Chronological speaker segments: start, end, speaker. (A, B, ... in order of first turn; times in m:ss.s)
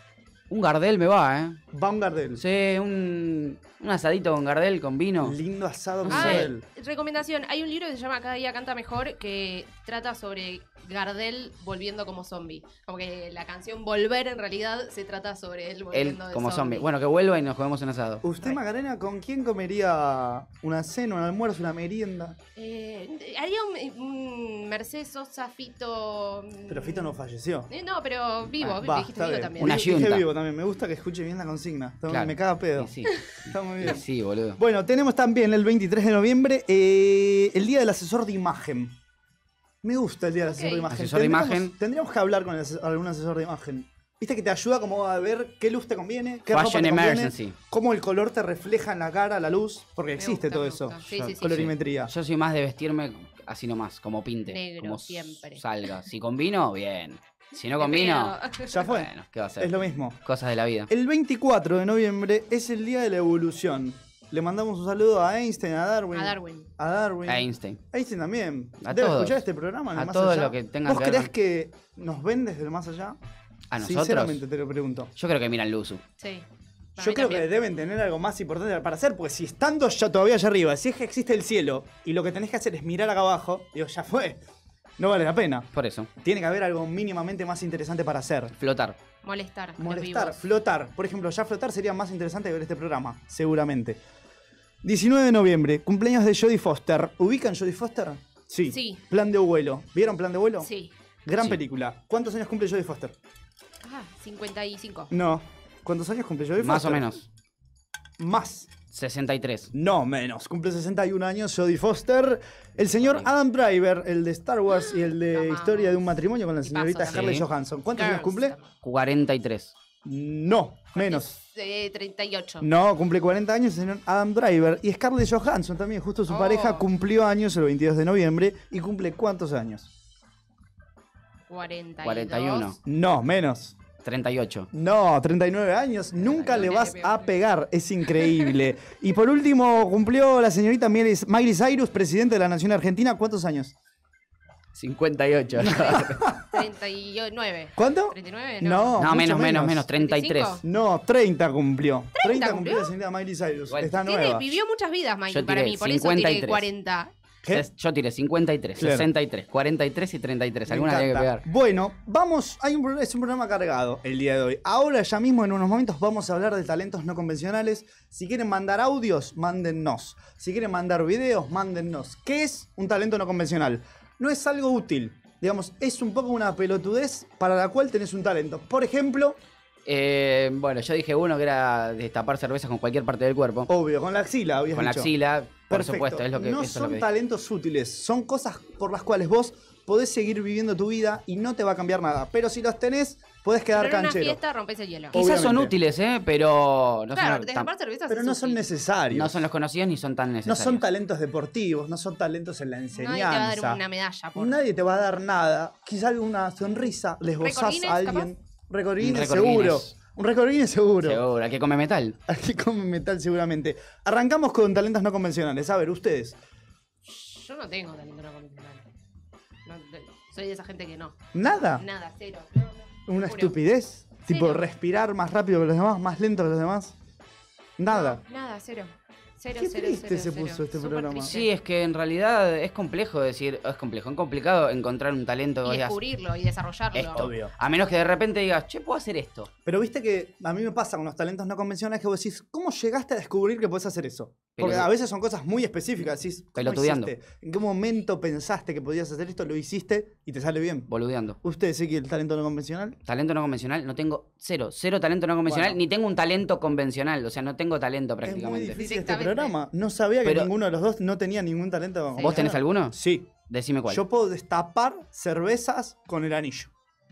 0:00.5-0:01.6 A
0:01.7-0:02.4 B
0:02.4-0:05.4 A
0:05.2-0:06.6 B
0:06.0-0:06.5 A
0:06.1-0:16.9 C
0:15.9-0:18.2 A
0:18.2-0:22.4 B
0:22.6-0:27.1 C
0:26.7-0:27.7 B
0:27.7-0:29.8 C
0:28.8-0:32.9 B
0:29.6-0:30.3 A
0:32.1-0:34.6 A
0:33.5-0:34.0 B
0:34.6-0:38.9 B
0:39.8-0:52.1 B
0:40.4-0:40.9 C
0:40.9-0:41.7 A
0:46.5-0:47.6 A
0:50.2-0:51.7 C
0:51.1-1:00.9 A
0:54.5-0:55.6 C
0:57.8-0:58.7 C
0:58.7-1:00.2 B
1:00.9-1:13.2 B
1:06.1-1:06.7 C
1:07.3-1:07.8 A
1:08.8-1:09.4 A
1:09.9-1:11.3 A
1:13.7-1:14.4 A
1:13.8-1:15.1 B
1:15.2-1:16.0 A
1:16.2-1:16.4 C
1:17.0-1:17.5 C
1:17.0-1:24.4 B
1:25.0-1:25.7 B
1:25.7-1:26.1 A
1:26.2-1:28.5 B
1:28.6-1:29.0 A
1:29.2-1:30.4 C
1:29.8-1:34.0 B
1:34.8-1:40.7 B
1:38.7-1:39.0 C
1:40.6-1:40.9 C
1:41.2-1:43.1 B
1:43.8-1:45.1 C
1:45.1-1:47.1 B
1:46.6-1:47.2 A
1:48.2-1:48.7 B
1:48.9-1:49.7 A
1:49.7-1:58.5 B
1:53.0-1:53.3 A
1:54.8-1:58.7 C
1:57.1-1:57.5 A
1:58.8-1:59.7 A
2:00.0-2:01.4 B
2:00.9-2:02.6 C
2:02.6-2:09.9 B
2:06.3-2:06.9 C
2:11.5-2:12.8 C
2:12.0-2:12.8 A
2:12.8-2:13.8 B
2:14.0-2:14.7 A
2:14.7-2:23.7 B
2:16.2-2:16.8 A
2:16.5-2:17.3 C
2:24.7-2:26.3 A
2:25.6-2:26.5 B
2:26.5-2:29.0 C
2:27.8-2:29.8 B
2:29.0-2:30.6 A
2:30.0-2:30.6 C
2:30.6-2:34.6 B
2:32.1-2:32.9 C
2:34.0-2:37.1 C
2:35.3-2:36.6 A
2:37.5-2:41.4 A
2:38.8-2:39.1 B
2:40.7-2:59.4 B
2:59.8-3:03.7 A
3:03.7-3:05.1 B
3:04.7-3:07.0 A
3:05.7-3:14.4 B
3:13.7-3:15.2 C
3:15.1-3:15.7 B
3:15.1-3:17.7 A
3:17.1-3:18.7 C
3:18.1-3:19.4 B
3:19.1-3:20.8 A
3:20.4-3:23.8 B
3:22.9-3:24.6 C
3:24.4-3:31.2 B
3:27.4-3:28.3 C
3:29.0-3:29.9 A
3:31.0-3:32.2 A
3:32.3-3:36.4 B
3:37.0-3:38.8 C
3:39.6-3:43.6 C
3:41.3-3:41.8 B
3:43.1-3:46.9 B
3:44.3-3:44.6 C
3:47.8-3:48.2 B
3:47.9-3:51.5 C
3:49.5-3:51.3 B
3:51.3-3:56.0 A
3:55.6-3:57.3 C
3:56.9-3:59.5 A
3:57.1-3:57.5 B
3:59.6-4:10.9 B
4:04.6-4:04.9 A
4:06.6-4:07.1 A
4:10.9-4:11.4 A
4:11.4-4:13.0 B
4:13.0-4:18.8 A
4:15.4-4:15.8 B
4:18.2-4:23.3 B
4:18.8-4:19.6 C
4:20.2-4:20.5 A
4:22.1-4:22.4 C
4:22.2-4:23.0 A
4:23.5-4:24.0 A
4:23.9-4:26.7 B